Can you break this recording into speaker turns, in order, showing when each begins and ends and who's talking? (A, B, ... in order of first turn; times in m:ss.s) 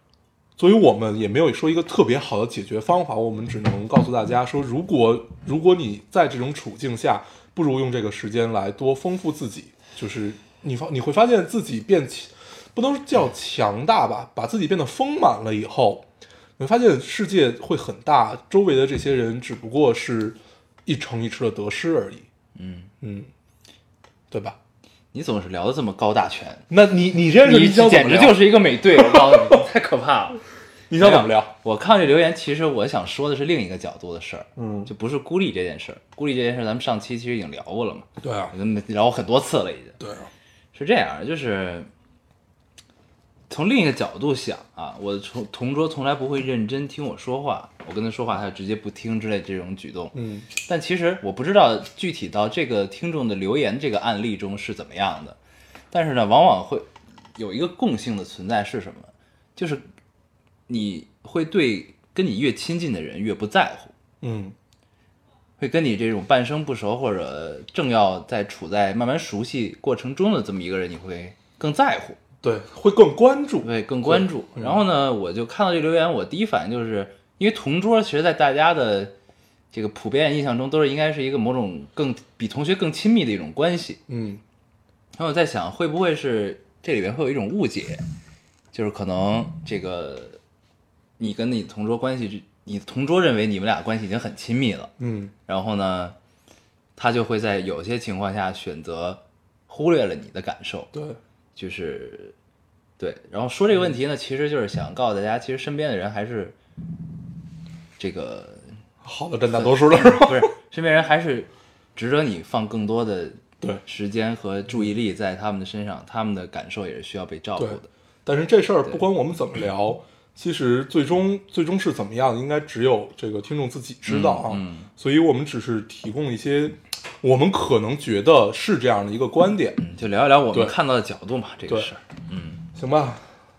0:00.6-0:16.0 A
0:16.6-0:22.3 A
0:22.5-0:22.9 B
0:23.0-0:23.3 A
0:24.3-0:24.6 A
0:25.1-0:26.6 B
0:26.7-0:29.6 A
0:27.4-0:30.4 B
0:30.9-0:31.5 A
0:31.0-0:40.0 B
0:34.6-0:34.9 A
0:38.2-0:38.5 A
0:40.0-0:40.3 A
0:40.7-0:41.9 B
0:43.5-0:55.4 B
0:50.1-0:50.5 A
0:55.9-0:59.8 B
1:00.7-1:03.9 B
1:04.2-1:04.5 A
1:05.6-1:12.2 B
1:12.4-1:14.8 A
1:13.6-1:19.1 B
1:19.7-1:24.0 B
1:24.1-1:24.4 A
1:25.1-1:28.0 B
1:28.7-1:30.4 B
1:31.2-1:34.9 B
1:35.0-1:35.3 A
1:35.5-1:36.2 B
1:37.0-1:40.9 B
1:40.9-1:41.2 A
1:41.6-1:42.3 B
1:43.0-1:46.6 B
1:48.0-1:48.7 B
1:49.0-1:50.5 A
1:49.5-1:57.9 B
1:57.6-2:09.8 A
2:04.0-2:04.9 B
2:09.8-2:12.6 B
2:12.7-2:13.2 A